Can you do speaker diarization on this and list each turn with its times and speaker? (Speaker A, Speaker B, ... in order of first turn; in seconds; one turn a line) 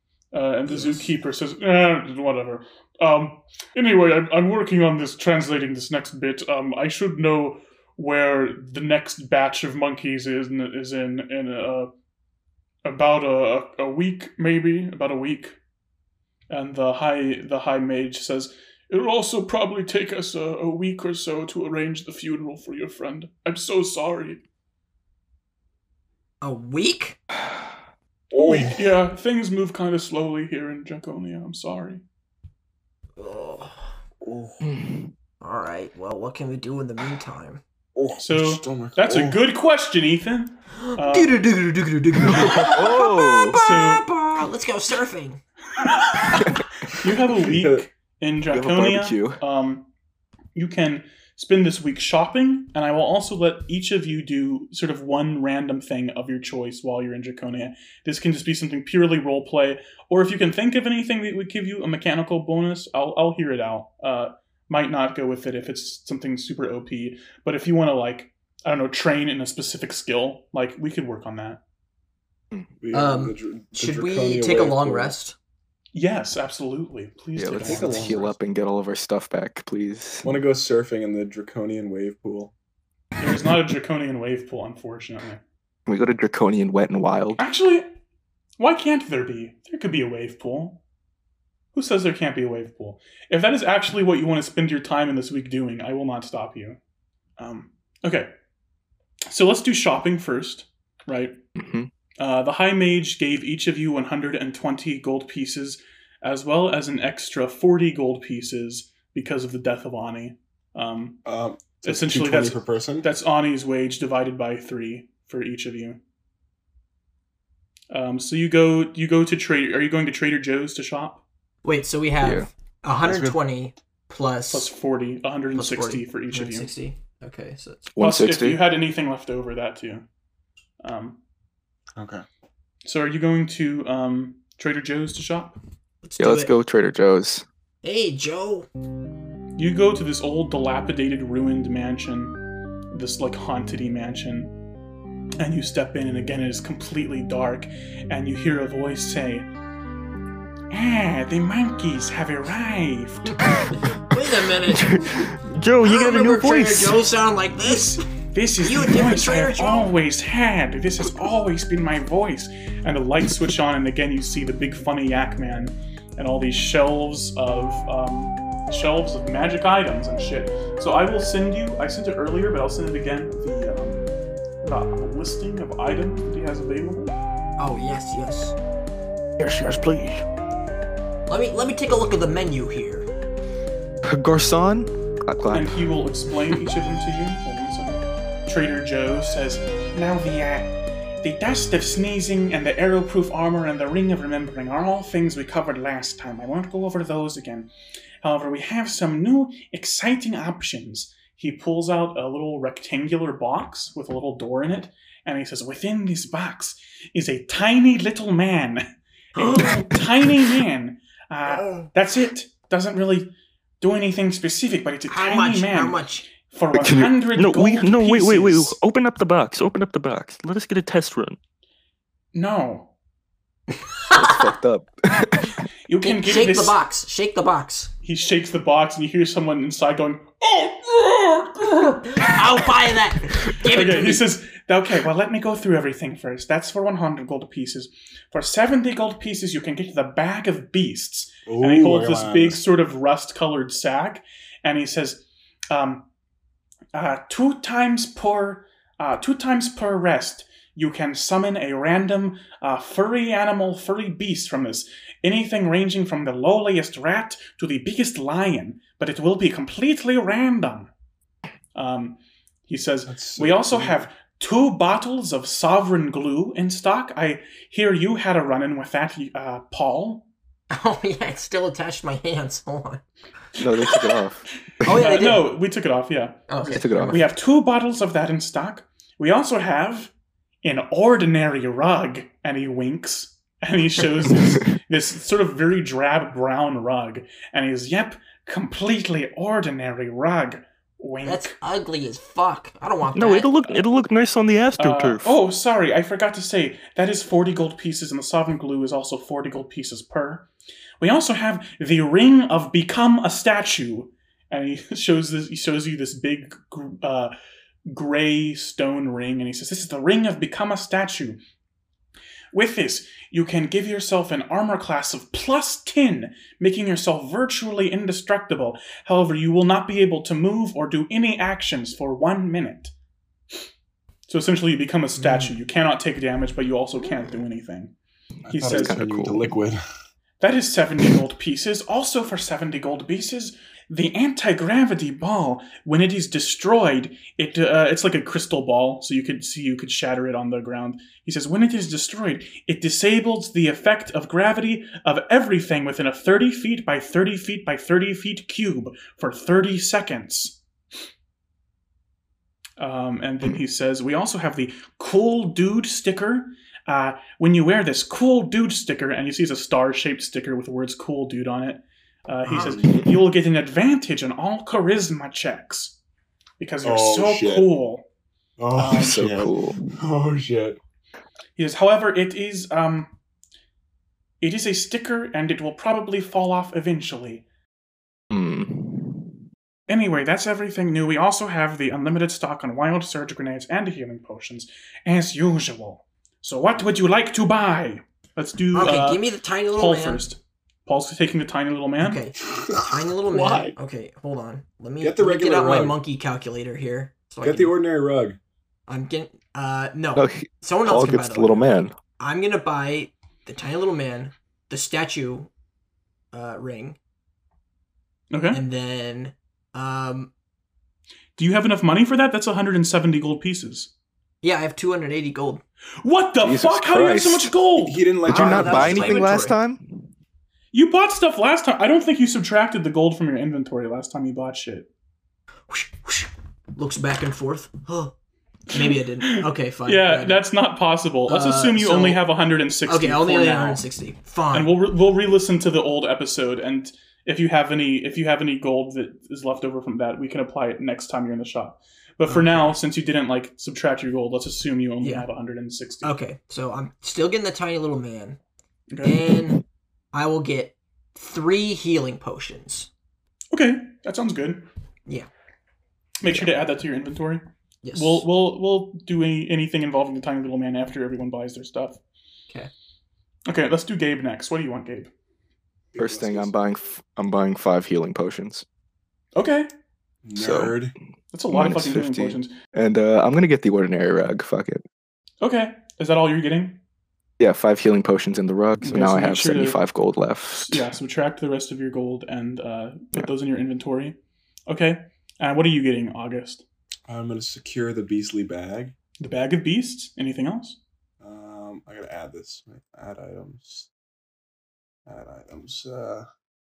Speaker A: 0.3-11.9
Speaker A: 12.8-15.6
Speaker A: 16.5-24.4
Speaker B: 26.4-27.2
Speaker C: 28.3-28.9
Speaker A: 28.4-32.0
Speaker B: 33.2-33.9
Speaker C: 34.2-34.6
Speaker D: 34.6-35.1
Speaker B: 35.4-37.6
Speaker C: 38.0-39.4
Speaker A: 38.2-41.4
Speaker B: 40.8-45.4
Speaker D: 42.2-43.6
Speaker A: 43.5-44.0
Speaker A: 46.2-49.9
Speaker C: 47.3-47.9
Speaker D: 48.5-49.4
Speaker A: 50.5-71.6
Speaker C: 72.8-75.1
Speaker B: 72.9-75.3
Speaker A: 75.9-78.2
Speaker D: 77.3-80.3
Speaker C: 77.6-78.3
Speaker C: 80.2-82.5
Speaker A: 83.2-85.4
Speaker D: 85.9-87.4
Speaker A: 87.4-87.9
Speaker A: 88.6-90.8
Speaker A: 91.7-96.8
Speaker A: 97.4-98.3
Speaker A: 99.3-101.4
Speaker D: 101.5-101.9
Speaker A: 102.2-111.2
Speaker C: 111.2-113.1
Speaker A: 111.8-116.0
Speaker A: 117.9-121.2
Speaker B: 121.6-124.7
Speaker D: 122.2-122.5
Speaker C: 123.0-123.4
Speaker A: 124.5-126.7
Speaker B: 125.5-127.9
Speaker D: 128.0-128.6
Speaker A: 128.0-130.0
Speaker A: 130.8-131.2
Speaker C: 132.0-132.2
Speaker A: 132.8-135.6
Speaker B: 136.0-136.5
Speaker D: 136.2-137.4
Speaker B: 137.8-138.7
Speaker A: 139.6-142.4
Speaker A: 142.9-144.5
Speaker A: 145.4-149.5
Speaker A: 150.7-153.6
Speaker B: 153.7-155.0
Speaker E: 154.7-157.0
Speaker B: 155.8-158.1
Speaker A: 157.6-174.0
Speaker B: 158.6-159.9
Speaker A: 174.6-177.1
Speaker B: 177.6-178.6
Speaker D: 179.4-180.2
Speaker B: 181.3-183.1
Speaker D: 184.0-185.8
Speaker A: 185.5-197.7
Speaker A: 198.2-218.8
Speaker B: 209.3-210.0
Speaker B: 211.5-211.9
Speaker B: 215.1-216.2
Speaker E: 216.8-221.4
Speaker A: 222.3-222.9
Speaker D: 224.1-225.6
Speaker A: 225.9-226.8
Speaker B: 226.0-227.9
Speaker A: 228.0-232.3
Speaker B: 232.1-234.2
Speaker A: 233.5-246.1
Speaker C: 241.5-242.6
Speaker A: 246.9-260.9
Speaker A: 261.7-270.3
Speaker C: 263.1-264.1
Speaker B: 270.7-273.0
Speaker D: 273.6-275.2
Speaker B: 274.8-275.5
Speaker A: 274.9-291.5
Speaker B: 276.5-277.3
Speaker D: 276.7-277.3
Speaker B: 291.2-293.5
Speaker E: 293.1-295.3
Speaker A: 294.8-300.5
Speaker A: 301.0-307.3
Speaker A: 307.9-311.4
Speaker A: 312.5-322.9
Speaker A: 324.3-327.9
Speaker B: 325.2-325.5
Speaker C: 328.5-329.8
Speaker D: 328.5-329.5
Speaker A: 328.5-329.0
Speaker A: 330.4-350.6
Speaker A: 352.8-366.0
Speaker B: 362.4-362.8
Speaker A: 366.6-368.1
Speaker C: 366.8-367.7
Speaker C: 368.6-370.8
Speaker A: 368.8-369.3
Speaker D: 368.9-369.8
Speaker A: 371.6-373.1
Speaker A: 374.4-377.4
Speaker D: 378.3-379.3
Speaker A: 379.9-392.2
Speaker B: 388.7-390.2
Speaker B: 392.0-397.8
Speaker C: 392.5-393.8
Speaker C: 395.0-396.0
Speaker C: 397.4-398.4
Speaker B: 398.9-405.5
Speaker D: 400.1-401.9
Speaker B: 406.3-407.0
Speaker A: 408.3-408.6
Speaker B: 408.5-410.3
Speaker A: 411.4-413.9
Speaker B: 414.4-415.6
Speaker A: 416.0-418.1
Speaker D: 416.4-417.5
Speaker C: 417.8-419.2
Speaker D: 418.2-420.1
Speaker B: 418.3-419.6
Speaker A: 420.7-424.9
Speaker B: 425.7-428.1
Speaker B: 428.7-430.4
Speaker A: 429.2-433.8
Speaker B: 431.3-432.2
Speaker B: 432.9-434.7
Speaker A: 434.5-446.1
Speaker B: 442.3-442.8
Speaker B: 445.0-445.3
Speaker B: 446.0-448.4
Speaker A: 448.9-449.3
Speaker B: 449.0-452.9
Speaker A: 453.5-454.7
Speaker A: 456.2-462.0
Speaker B: 457.8-458.2
Speaker A: 463.5-465.1
Speaker C: 465.9-466.5
Speaker D: 466.0-468.6
Speaker A: 469.4-469.7
Speaker C: 470.2-470.9
Speaker D: 470.4-470.8
Speaker A: 471.3-472.5
Speaker D: 471.5-474.8
Speaker A: 475.4-476.8
Speaker D: 477.4-480.9
Speaker A: 478.8-479.8
Speaker A: 480.5-484.1
Speaker A: 484.7-486.6
Speaker C: 487.1-488.9
Speaker A: 489.2-490.8
Speaker C: 491.2-493.9
Speaker C: 495.1-496.3